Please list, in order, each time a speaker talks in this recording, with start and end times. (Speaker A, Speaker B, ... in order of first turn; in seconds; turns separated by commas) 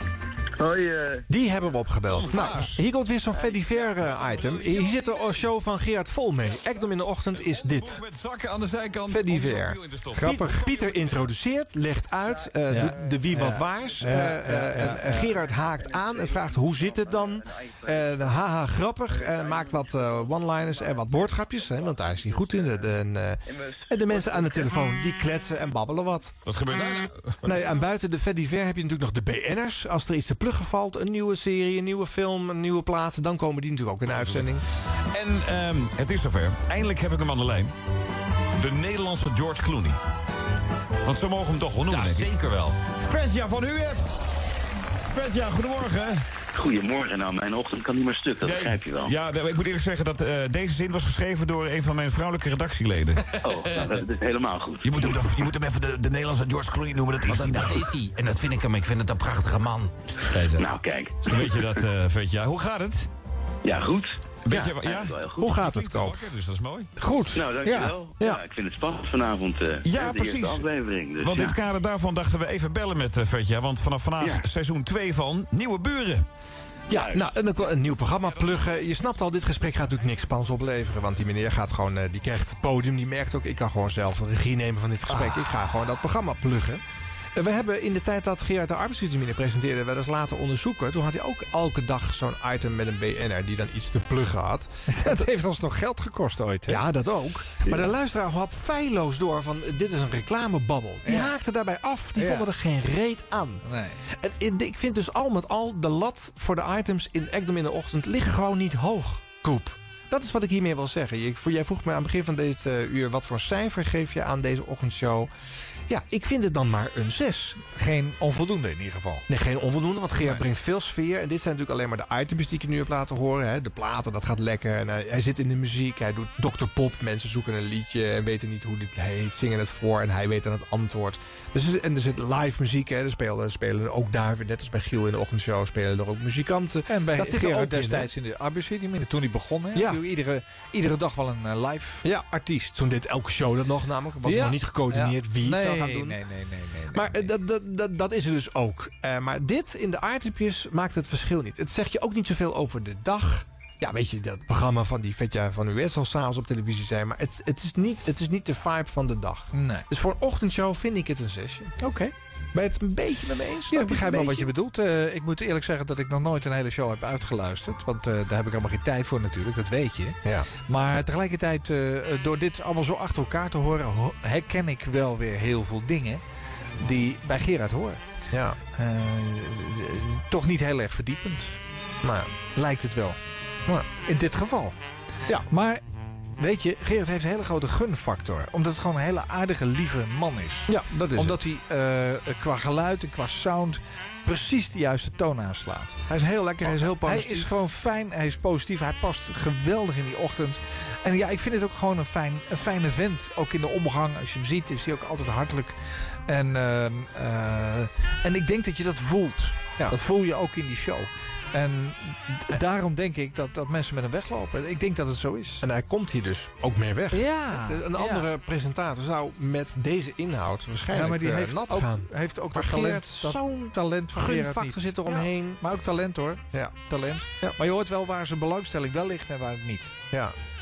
Speaker A: 0.6-1.2, Speaker B: 1.3-8.0, Speaker C: 2.1-2.8, Speaker C: 4.0-4.8, Speaker C: 7.3-11.3, Speaker B: 9.1-26.4, Speaker D: 10.1-10.7, Speaker D: 12.7-15.3, Speaker A: 16.4-18.0, Speaker A: 19.4-19.9, Speaker A: 24.1-24.5, Speaker C: 26.4-27.6, Speaker B: 27.4-34.6, Speaker C: 35.1-37.7, Speaker C: 38.6-40.0, Speaker C: 41.0-42.3, Speaker E: 41.9-42.8, Speaker C: 42.9-44.2, Speaker C: 45.1-46.2, Speaker A: 46.5-49.1, Speaker C: 48.4-54.0, Speaker A: 53.4-55.2, Speaker C: 54.8-57.9, Speaker E: 57.2-60.7, Speaker A: 60.4-61.6, Speaker C: 61.2-63.1, Speaker A: 63.6-65.5, Speaker C: 64.4-66.9, Speaker B: 65.4-66.2, Speaker D: 67.0-67.9, Speaker A: 67.3-71.6, Speaker C: 69.8-70.7, Speaker C: 71.2-76.2, Speaker B: 76.9-86.8, Speaker A: 76.9-77.2, Speaker B: 87.3-95.2, Speaker D: 94.9-96.8, Speaker B: 96.7-115.3, Speaker D: 101.0-101.3, Speaker D: 102.2-102.5, Speaker D: 103.6-104.0, Speaker B: 115.9-117.6, Speaker D: 117.7-119.2, Speaker B: 119.3-138.1, Speaker D: 136.9-142.8, Speaker B: 139.7-140.0, Speaker B: 142.0-146.2, Speaker D: 144.2-147.3, Speaker B: 146.9-161.7, Speaker D: 159.5-159.8, Speaker D: 161.8-162.1, Speaker B: 162.5-164.5, Speaker D: 163.7-176.2, Speaker D: 176.8-178.0, Speaker B: 178.3-178.6, Speaker D: 178.7-181.6, Speaker B: 182.0-182.3, Speaker D: 182.5-183.2, Speaker D: 184.0-184.8, Speaker D: 185.5-185.8, Speaker D: 186.4-196.0, Speaker B: 190.7-191.4, Speaker B: 196.1-197.5, Speaker D: 196.7-205.8, Speaker D: 206.3-215.6, Speaker B: 215.6-225.6, Speaker D: 217.1-218.3, Speaker D: 220.9-229.9